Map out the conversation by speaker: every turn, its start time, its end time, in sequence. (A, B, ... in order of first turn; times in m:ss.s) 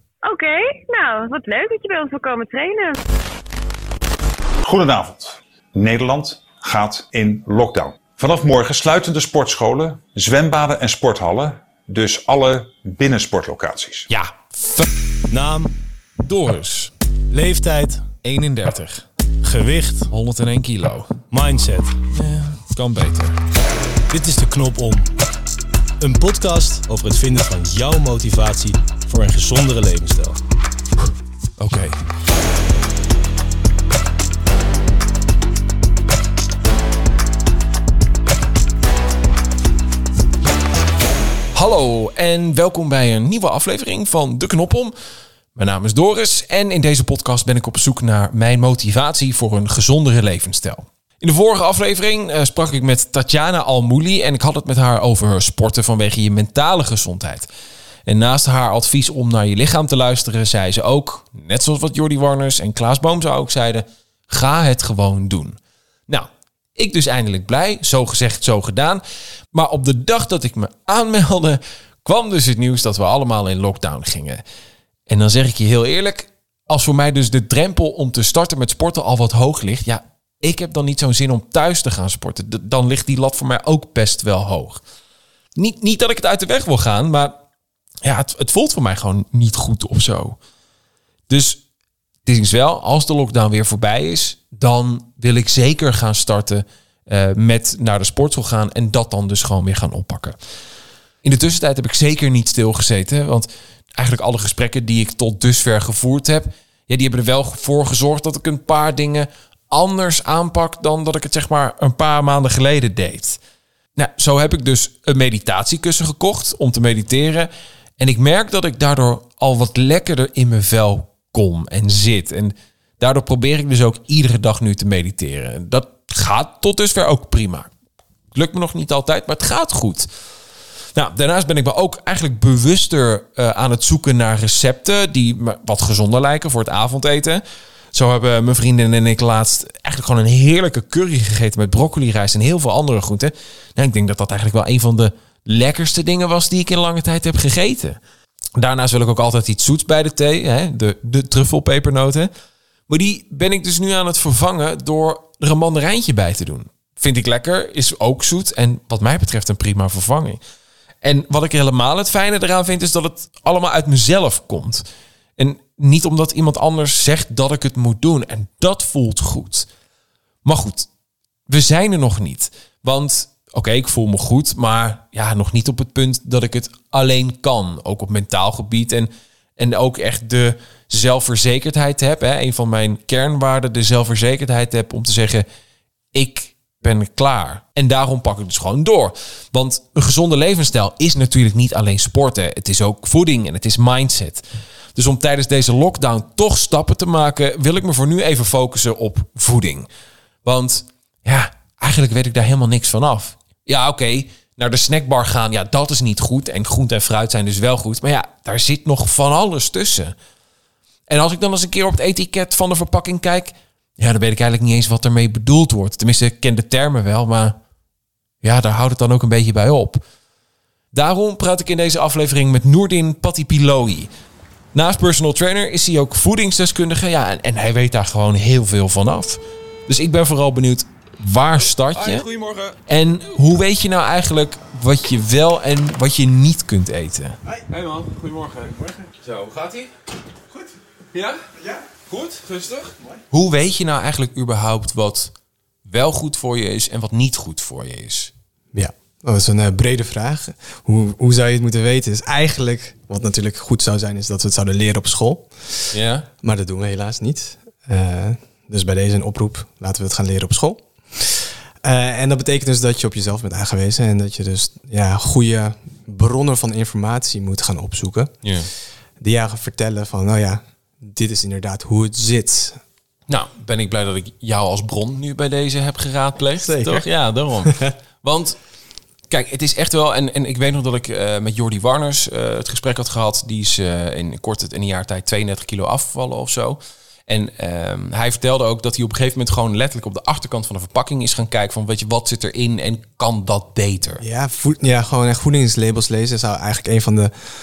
0:00.2-0:03.0 A
0:04.6-0:14.1 B
0:14.1-0:14.9 C
0:15.3-0:15.7 D
0:16.2-0:16.9 C
0:17.3-0:18.1 D
0:18.2-0:19.0 C
0:19.4-0:20.1 D
0:20.1-0:21.2 C
0:21.3-0:22.0 D
0:22.1-0:23.4 C
0:24.1-0:25.1 D
0:26.0-0:30.4 D
0:31.6-0:32.0 C
0:41.5-0:44.9 C
0:45.6-0:57.5 C
0:58.1-1:14.4 C
1:15.1-1:24.8 C
1:25.6-1:27.4 C
1:28.0-1:30.4 C
1:31.3-1:31.6 C
1:32.2-1:40.4 C
1:41.2-1:53.4 C
1:54.0-2:07.7 C
2:08.3-2:10.1 C
2:11.0-2:17.4 C
2:17.9-2:28.0 C
2:28.6-2:32.3 C
2:32.9-2:40.4 C
2:41.0-2:44.8 C
2:45.4-2:49.7 C
2:50.4-2:50.9 C
2:51.5-3:05.5 C
3:06.1-3:14.4 C
3:15.0-3:19.9 C
3:20.4-3:30.2 C
3:31.1-3:37.6 C
3:38.4-3:40.0 C
3:40.9-3:44.1 C
3:44.7-3:59.9 C
4:01.1-4:01.4 C
4:02.1-4:05.3 C
4:05.8-4:08.3 C
4:08.7-4:15.5 E
4:15.9-4:16.3 C
4:16.4-4:28.3 E
4:28.4-4:28.7 C
4:29.2-4:32.8 E
4:33.3-4:38.6 C
4:36.6-4:37.0 E
4:37.6-4:37.9 E
4:39.3-4:54.2 C
4:54.2-4:57.3 E